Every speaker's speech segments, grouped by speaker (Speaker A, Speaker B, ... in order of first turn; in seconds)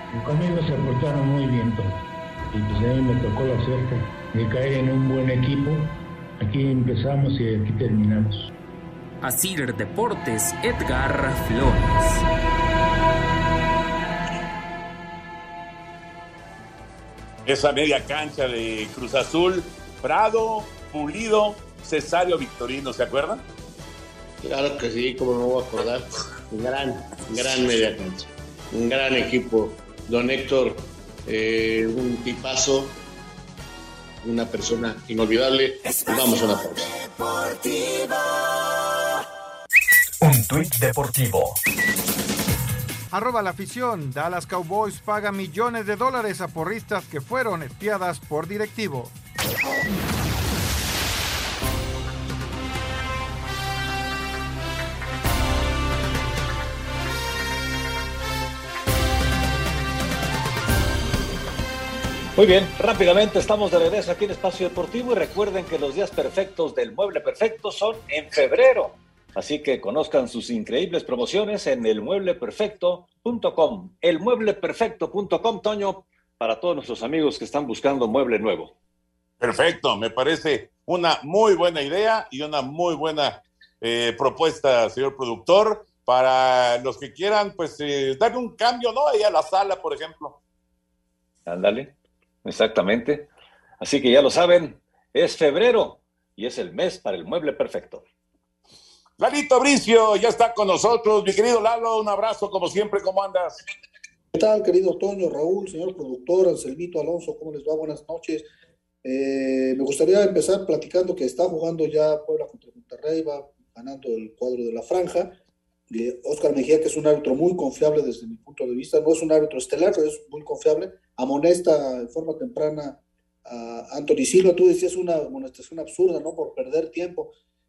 Speaker A: 0.1-8.5
Speaker B: 9.2-12.2
Speaker C: 17.4-23.4, 79.4-90.3, 99.2-103.6
Speaker D: 24.4-33.0, 34.2-36.9
Speaker E: 43.1-49.1
Speaker F: 62.4-78.7, 91.5-91.9, 92.4-93.2, 93.8-98.0
Speaker G: 104.3-108.4, 109.0-115.3, 115.9-127.3